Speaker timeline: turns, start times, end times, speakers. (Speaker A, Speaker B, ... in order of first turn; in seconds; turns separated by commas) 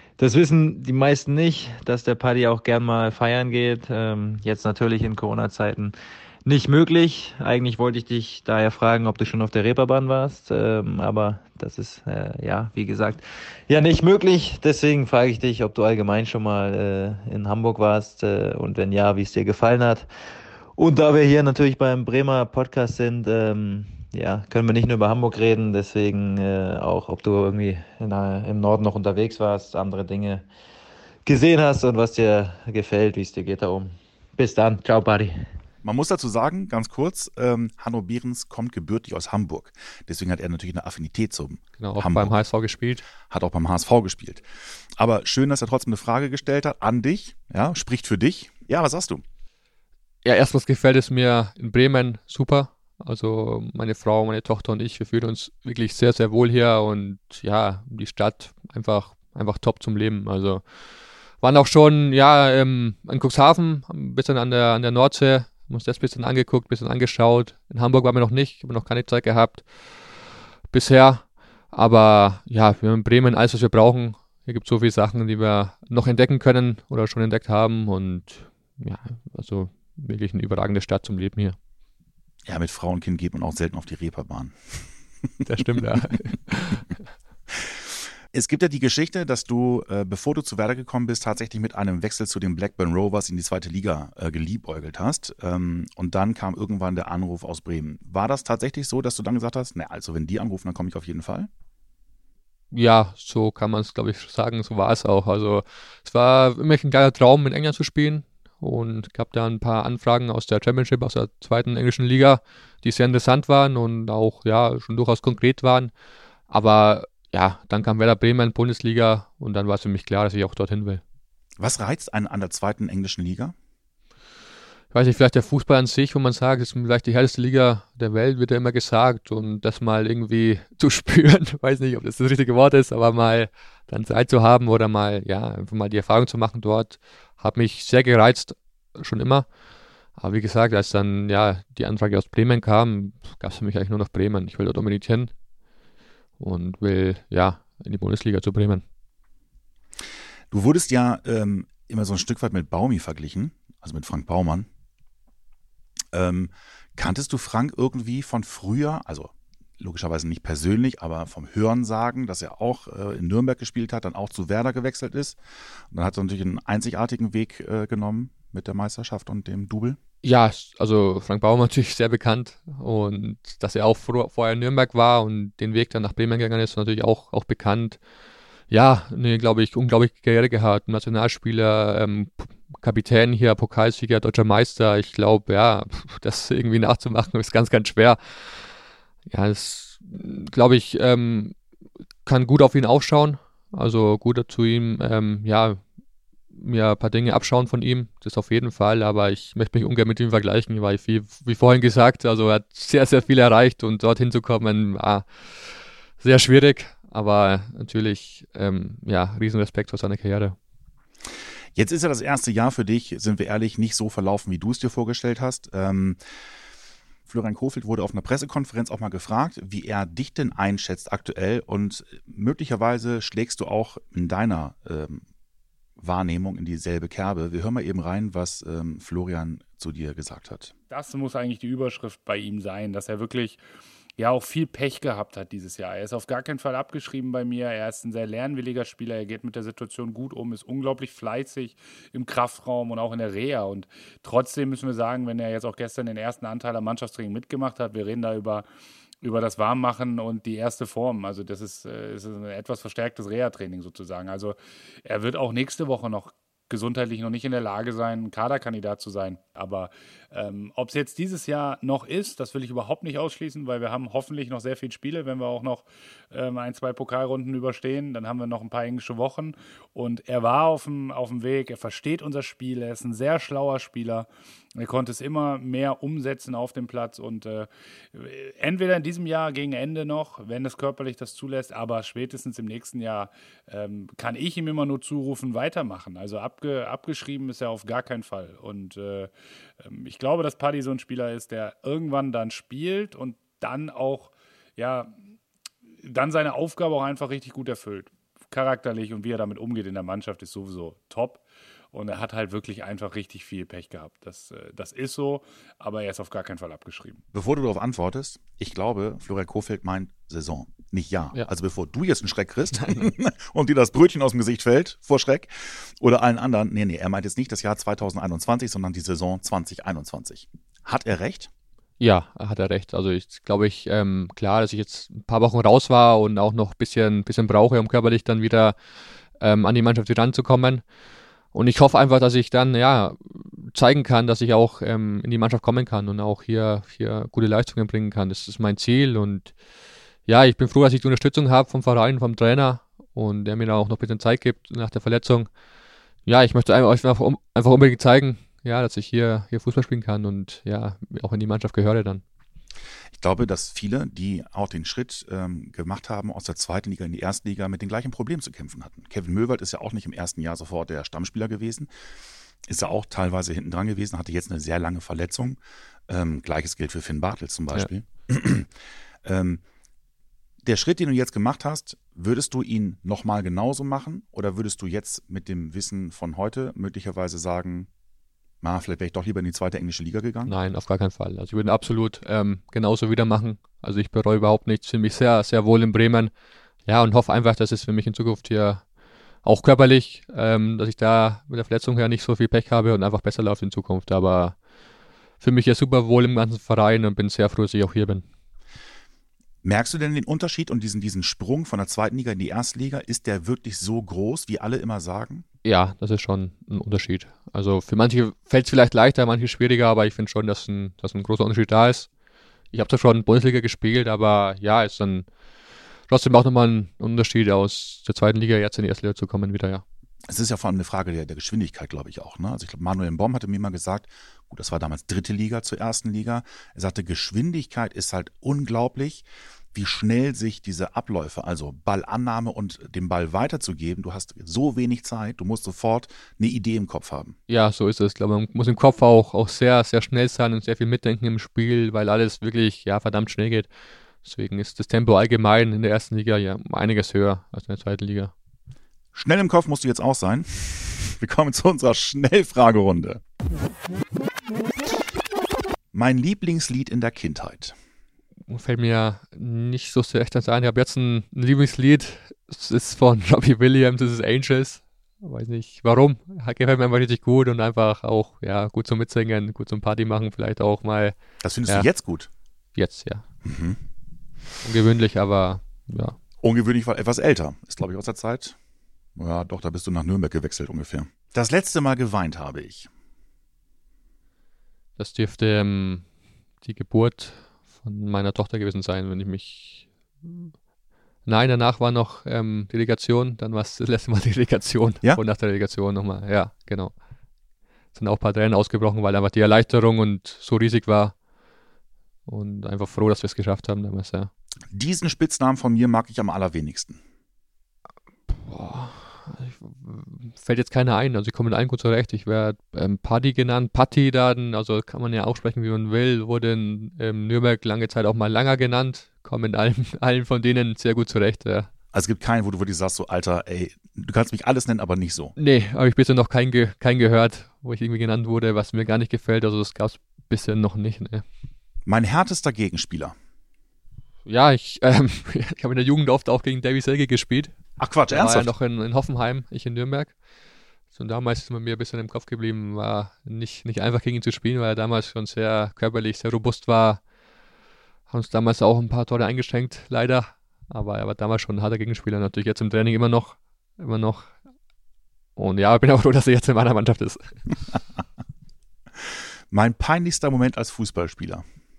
Speaker A: 0.2-20.1, Speaker A: 20.8-30.5, Speaker A: 31.2-35.4, Speaker B: 35.8-42.4, Speaker C: 41.8-43.0, Speaker B: 43.2-49.2, Speaker C: 50.2-60.6, Speaker C: 61.4-69.7, Speaker C: 70.7-81.6, Speaker B: 82.5-84.9, Speaker C: 85.5-87.0, Speaker B: 85.6-85.8, Speaker B: 88.3-101.5, Speaker C: 102.7-115.9, Speaker C: 116.5-121.0, Speaker B: 121.6-123.5, Speaker C: 124.9-139.5, Speaker C: 140.2-145.3, Speaker C: 146.4-148.8, Speaker B: 150.5-154.7, Speaker B: 156.1-165.4, Speaker B: 165.9-170.0, Speaker C: 170.2-178.0, Speaker C: 178.7-188.2, Speaker C: 189.3-191.6, Speaker C: 192.3-195.8, Speaker C: 196.5-205.4, Speaker C: 206.2-210.6, Speaker B: 211.8-216.2, Speaker B: 217.3-225.2, Speaker B: 226.0-230.7, Speaker D: 230.9-233.6, Speaker D: 234.2-248.7, Speaker D: 249.2-295.1, Speaker D: 296.0-307.2, Speaker B: 307.3-321.5, Speaker C: 322.0-328.8, Speaker C: 329.4-330.8, Speaker C: 331.5-339.5, Speaker C: 340.3-345.5, Speaker C: 346.3-352.2, Speaker B: 353.1-361.9, Speaker B: 362.7-368.7, Speaker B: 369.2-369.6, Speaker B: 370.6-377.9, Speaker B: 378.6-380.6, Speaker C: 380.5-386.3, Speaker C: 386.9-388.8, Speaker C: 389.4-394.6, Speaker C: 395.4-398.3, Speaker B: 399.6-405.4, Speaker C: 405.6-412.1, Speaker C: 412.7-415.3, Speaker C: 416.1-419.8, Speaker B: 420.3-437.4, Speaker C: 437.5-443.7, Speaker C: 444.2-448.3, Speaker B: 449.1-453.2, Speaker B: 455.9-457.8, Speaker C: 458.5-471.2, Speaker B: 471.4-472.3, Speaker C: 472.8-473.2, Speaker B: 473.4-473.8, Speaker C: 474.6-476.2, Speaker B: 476.4-478.6, Speaker B: 479.2-482.9, Speaker C: 485.0-486.1, Speaker C: 486.6-490.5, Speaker C: 491.3-496.9, Speaker C: 497.9-501.1, Speaker C: 502.3-504.3, Speaker B: 504.7-507.0, Speaker C: 508.3-521.7, Speaker B: 521.9-525.4, Speaker C: 525.4-531.2, Speaker B: 531.9-533.1, Speaker C: 534.3-537.5, Speaker B: 537.8-538.5, Speaker C: 538.1-540.1, Speaker C: 540.9-547.0, Speaker C: 548.1-554.3, Speaker C: 555.4-557.3, Speaker B: 559.1-561.5